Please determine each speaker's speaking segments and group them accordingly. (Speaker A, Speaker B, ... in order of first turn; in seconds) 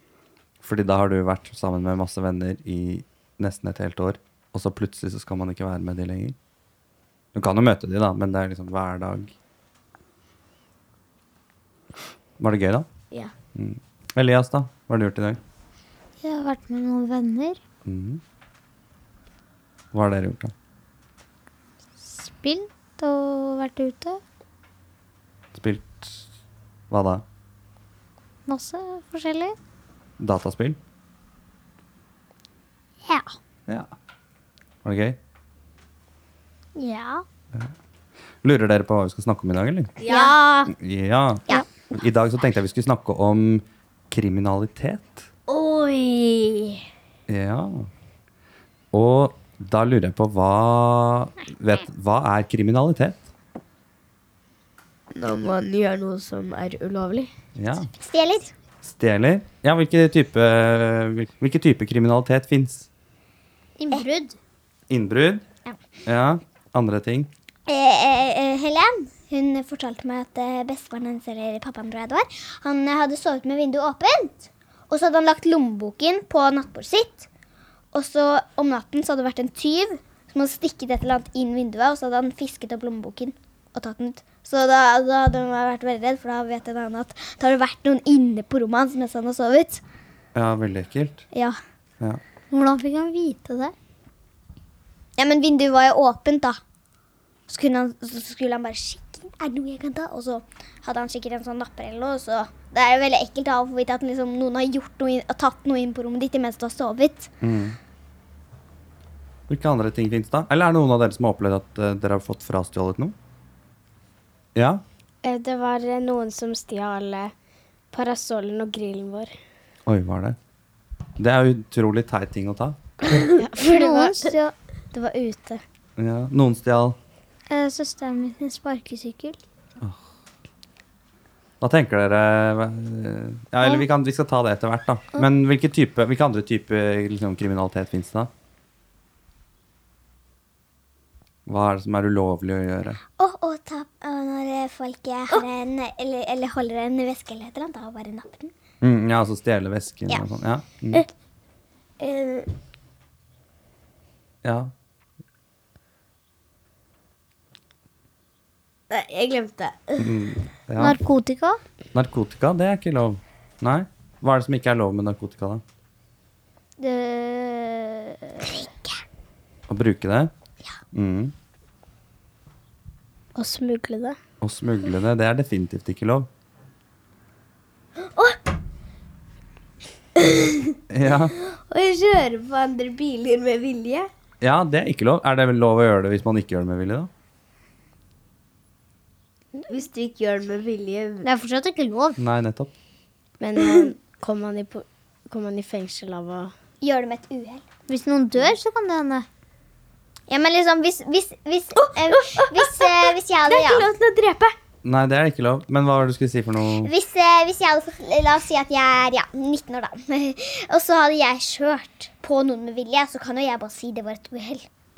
Speaker A: 0.6-6.3, 7.3-9.3, 12.4-12.9, 13.5-15.4, 17.8-18.2, 19.9-20.5, 25.5-26.2, 26.9-27.2, 30.2-30.8, 33.7-33.9, 34.8-35.2, 38.4-39.9, 40.7-45.3, 47.3-47.9, 48.9-53.2, 57.5-57.9, 58.8-62.9, 64.9-65.4, 66.0-67.3, 90.3-91.2, 107.4-107.8, 109.5-113.1, 114.5-114.8, 119.8-120.4, 121.2-122.8, 126.0-127.0, 131.6-138.3, 141.4-143.0, 148.8-151.1, 154.4-154.7, 160.0-161.0, 161.9-165.6, 169.7-170.3, 170.9-171.3, 174.4-176.3, 180.9-181.3, 184.4-187.1, 192.2-192.7, 204.8-206.9
Speaker B: 16.2-17.6, 22.0-24.2, 28.4-29.6, 36.8-37.2, 63.8-64.4, 92.5-93.7, 123.5-124.5, 127.5-129.4, 160.8-161.6, 166.8-168.3, 191.2-192.2, 197.9-199.2
Speaker C: 40.0-40.7, 45.5-46.8, 55.1-57.3, 123.1-124.3, 125.0-125.6, 152.0-152.5, 158.9-160.1, 173.3-174.2, 178.0-178.4, 180.2-180.8, 181.4-184.1, 189.6-191.3, 193.6-194.8, 195.3-196.5, 201.8-204.5
Speaker D: 40.1-40.3, 57.9-58.5, 67.7-77.3, 77.9-89.8, 91.3-91.6, 95.2-96.6, 97.5-107.3, 143.2-148.5, 168.4-168.9, 196.8-197.6, 200.3-203.9, 206.8-214.7
Speaker E: 115.2-117.3, 117.9-119.3, 123.5-123.9, 125.0-125.4, 193.4-194.8, 195.3-196.5